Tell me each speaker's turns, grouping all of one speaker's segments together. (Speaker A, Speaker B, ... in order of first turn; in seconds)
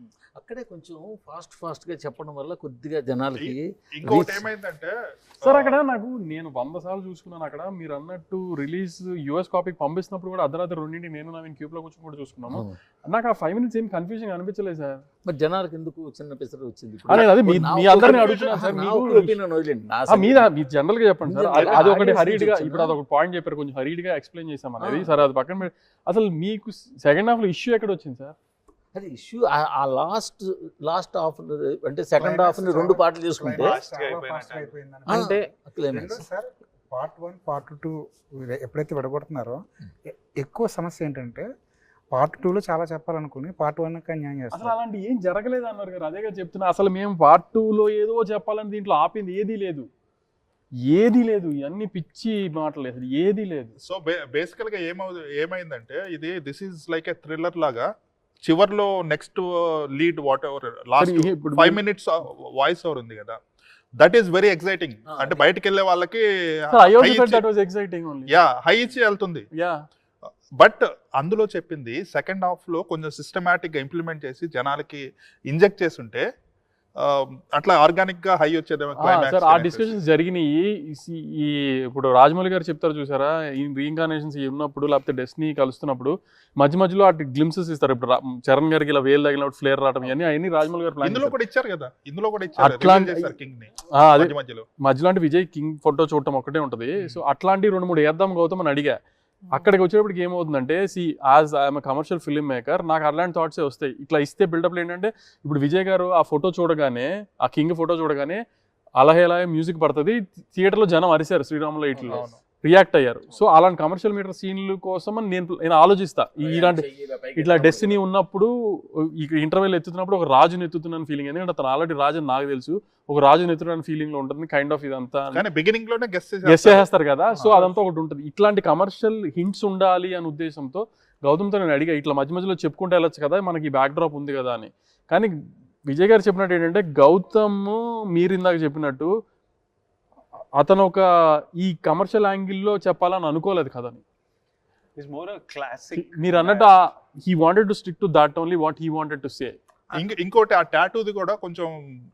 Speaker A: 0.3-4.5, 12.5-12.8, 15.2-20.5, 21.2-23.0, 24.8-25.2, 28.9-33.8, 35.1-36.2, 65.1-65.4, 116.4-118.0
Speaker B: 3.4-5.8, 17.1-17.4, 17.9-18.7, 21.6-21.9, 53.8-57.9, 58.4-63.4, 64.0-67.4, 68.3-69.5, 70.6-76.3, 77.0-80.0, 91.0-94.7, 112.0-112.4, 125.3-127.7, 149.9-151.7
Speaker C: 5.4-15.0, 17.1-19.4, 20.1-28.4, 44.5-49.9, 50.9-53.7, 61.0-61.8, 66.7-68.4, 79.0-91.4, 92.6-93.4, 94.0-99.0, 99.5-108.4, 109.0-125.4, 126.5-135.3, 135.9-139.1, 140.6-141.1, 141.6-144.0, 146.0-149.6
Speaker D: 32.2-41.5, 42.1-44.8
Speaker E: 33.5-34.8, 145.0-146.7